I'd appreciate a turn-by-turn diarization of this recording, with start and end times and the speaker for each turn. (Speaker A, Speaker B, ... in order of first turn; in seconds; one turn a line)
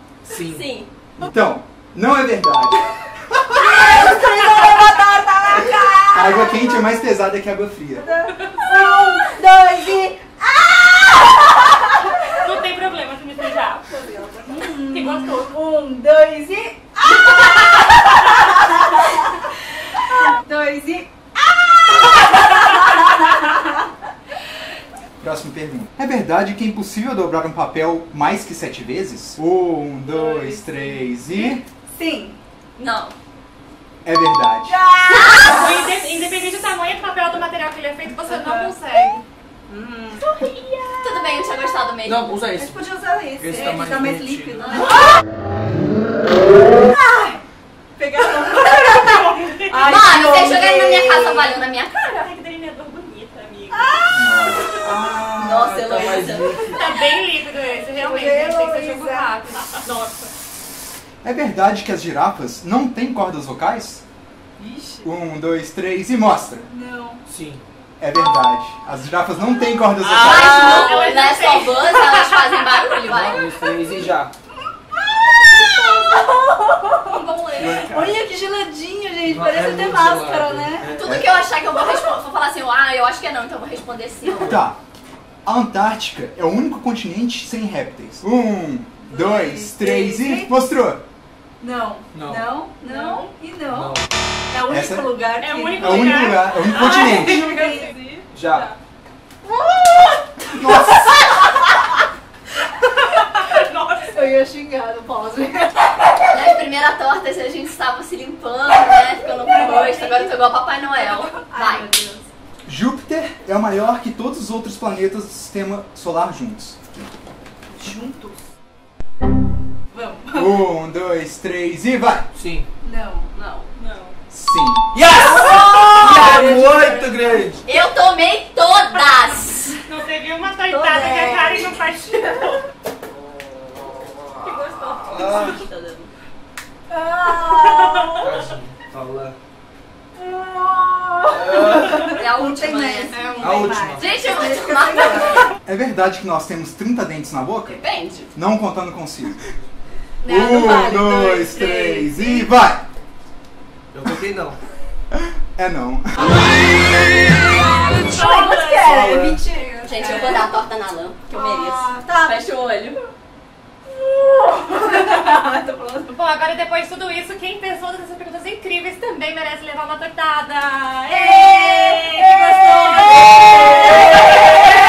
Speaker A: 0.3-0.7
Speaker B: 0.3-0.9
Speaker C: 1.2-3.8
Speaker D: 3.7-6.8
Speaker C: 6.0-8.1
Speaker D: 8.0-12.4
Speaker E: 8.3-8.7
Speaker E: 12.3-15.5
Speaker D: 14.0-19.4
Speaker D: 20.0-21.1
Speaker D: 22.0-23.1
Speaker C: 25.2-31.6
Speaker D: 30.1-32.4
Speaker B: 32.8-33.1
Speaker C: 34.0-34.8
Speaker D: 34.7-35.6
Speaker B: 35.1-35.9
Speaker E: 35.5-39.2
Speaker D: 38.1-38.8
Speaker D: 39.7-40.8
Speaker B: 40.4-42.2
Speaker A: 42.0-42.8
Speaker D: 42.5-45.0
Speaker A: 43.4-44.8
Speaker D: 46.8-47.4
Speaker D: 48.0-49.1
Speaker E: 48.8-49.7
Speaker D: 49.7-51.6
Speaker B: 49.7-54.0
Speaker D: 53.7-54.3
Speaker C: 54.1-54.8
Speaker A: 54.8-56.8
Speaker B: 55.4-56.7
Speaker E: 56.7-60.3
Speaker D: 58.0-59.7
Speaker C: 61.2-64.0
Speaker D: 64.6-65.1
Speaker C: 65.0-66.7
Speaker D: 66.6-67.2
Speaker A: 67.3-67.6
Speaker C: 68.0-70.9
Speaker B: 70.2-73.5
Speaker E: 70.2-72.8
Speaker A: 70.2-70.8
Speaker A: 73.0-74.3
Speaker D: 75.0-77.2
Speaker B: 77.0-78.0
Speaker A: 77.6-78.1
Speaker D: 77.9-80.9
Speaker A: 79.2-81.1
Speaker B: 81.0-84.6
Speaker C: 81.0-81.3
Speaker C: 84.4-84.8
Speaker C: 85.5-91.0
Speaker D: 89.1-90.5
Speaker D: 91.6-94.0
Speaker A: 92.1-92.5
Speaker E: 92.8-93.3
Speaker A: 93.7-94.0
Speaker D: 94.5-96.1
Speaker C: 94.7-95.1
Speaker E: 95.4-98.0
Speaker C: 95.8-97.5
Speaker D: 96.8-98.7
Speaker A: 98.3-98.7
Speaker C: 100.5-101.1
Speaker E: 102.9-104.2
Speaker D: 104.1-105.9
Speaker B: 106.3-111.9
Speaker D: 109.4-110.3
Speaker D: 111.0-112.3
Speaker C: 112.7-116.8
Speaker D: 117.7-118.5
Speaker D: 119.9-120.6
Speaker C: 120.3-122.3
Speaker A: 122.3-122.7
Speaker D: 122.8-123.3
Speaker B: 123.3-123.7
Speaker E: 123.8-124.2
Speaker C: 124.3-124.9
Speaker A: 124.9-127.6
Speaker D: 125.2-127.1
Speaker B: 127.7-129.8
Speaker E: 129.9-132.7
Speaker D: 130.7-131.7
Speaker B: 134.4-136.1
Speaker A: 135.1-135.6
Speaker D: 136.9-138.3
Speaker E: 137.5-138.3
Speaker A: 138.2-139.4
Speaker D: 140.2-145.4
Speaker A: 141.4-141.8
Speaker B: 141.6-145.5
Speaker E: 143.2-143.7
Speaker A: 143.4-144.1
Speaker C: 145.7-147.8
Speaker B: 147.7-148.3
Speaker C: 148.3-149.5
Speaker D: 150.2-152.5
Speaker C: 150.3-152.8
Speaker A: 153.9-154.6
Speaker C: 155.1-156.4
Speaker D: 157.9-160.5
Speaker E: 157.9-159.1
Speaker A: 159.0-159.4
Speaker B: 159.8-163.0
Speaker D: 161.3-162.4
Speaker D: 163.9-166.2
Speaker E: 166.1-173.4
Speaker D: 171.1-174.2